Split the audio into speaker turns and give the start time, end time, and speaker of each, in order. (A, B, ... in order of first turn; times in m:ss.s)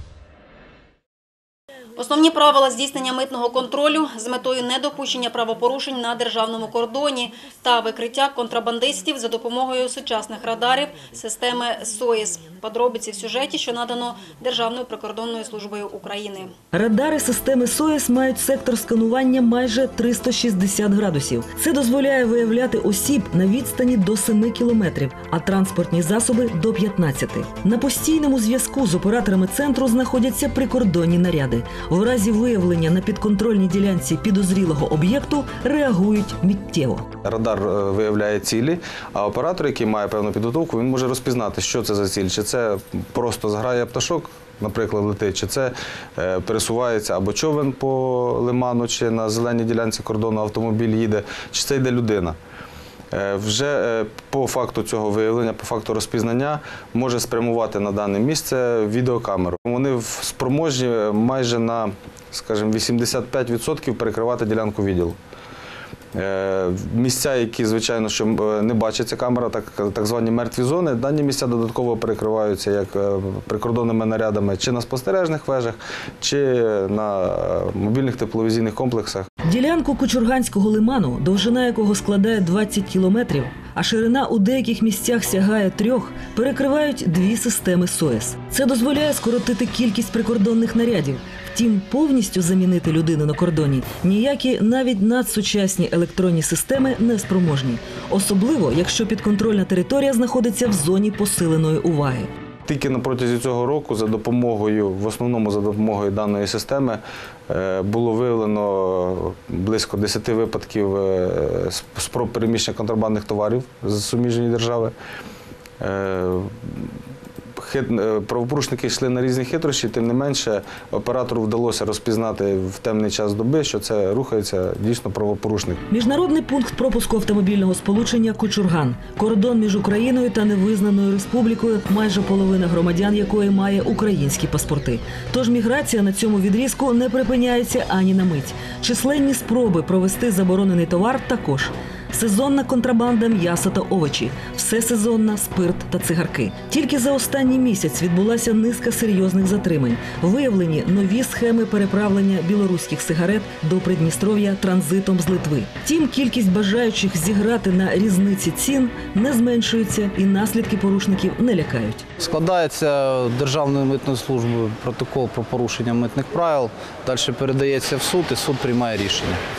0:02.0-0:16.6 A
0:16.7-0:37.1 B
0:37.2-0:52.4 C
0:53.1-1:05.2 C
1:06.1-1:19.3 C
1:19.5-1:42.3 B
1:42.7-1:54.9 C
1:55.8-1:56.9 C
1:57.6-2:05.8 C
2:05.9-2:42.1 B
2:42.2-2:49.4 D